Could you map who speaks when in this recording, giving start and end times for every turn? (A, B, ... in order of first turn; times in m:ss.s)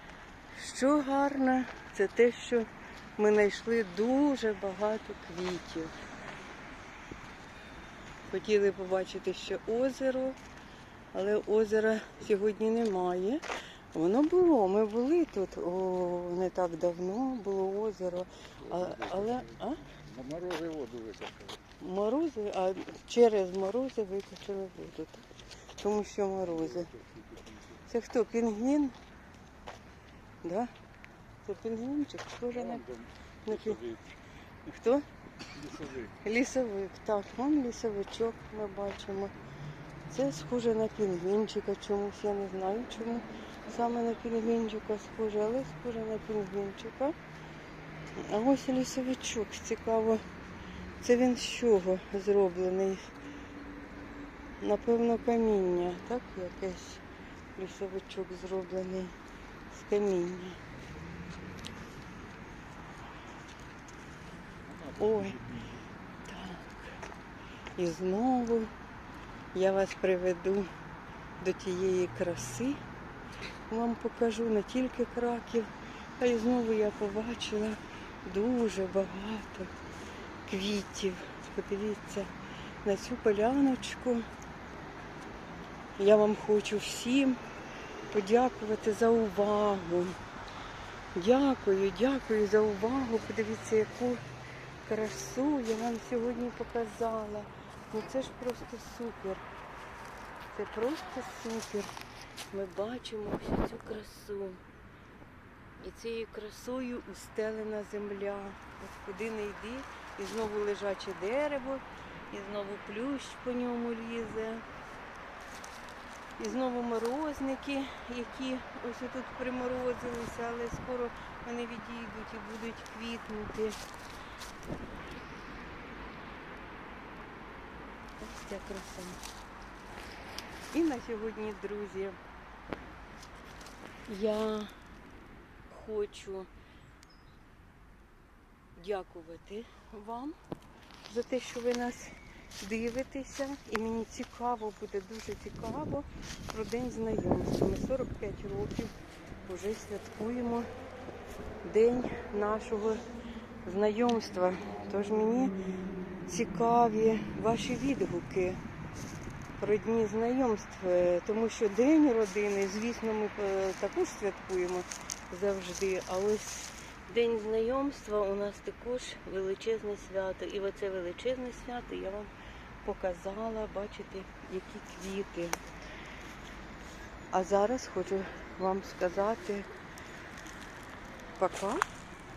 0:00.5-0:05.9 A
0:08.3-0:10.4 A
0:11.1-0:19.8 A
0:18.6-0:21.6 B
0:21.8-0:25.3 A
0:25.8-0:26.9 A
0:26.4-0:27.8 B
0:27.9-0:28.9 A
0:30.4-0:30.7 A
0:31.4-0:32.8 A
0:32.5-0:34.1 B
0:33.4-0:33.8 A
0:34.6-0:35.0 A
0:35.5-0:36.2 B
0:36.2-0:39.3 A
0:40.1-0:47.1 A
0:48.2-0:50.2 A
0:51.0-0:53.1 A
0:54.6-0:57.0 A
0:57.6-0:59.1 A
0:59.7-1:00.6 A
1:04.6-1:05.8 B
1:05.0-1:05.4 A
1:06.2-1:07.0 A
1:07.8-1:08.7 A
1:09.5-1:10.7 A
1:11.4-1:12.8 A
1:13.7-1:19.7 A
1:20.5-1:22.3 A
1:22.8-1:24.2 A
1:26.0-1:27.4 A
1:28.1-1:30.2 A
1:31.1-1:34.2 A
1:34.8-1:39.4 A
1:40.5-1:41.9 A
1:42.5-1:44.6 A
1:45.8-1:54.6 A
1:56.4-2:03.8 A
2:08.2-2:09.2 A
2:10.7-2:12.2 A
2:14.1-2:14.7 A
2:15.7-2:16.5 A
2:18.8-2:20.4 A
2:21.0-2:30.7 A
2:31.6-2:33.0 A
2:33.6-2:35.5 A
2:36.3-2:38.6 A
2:39.6-2:52.3 A
2:52.8-2:55.6 A
2:57.3-2:59.7 A
3:01.4-3:01.8 A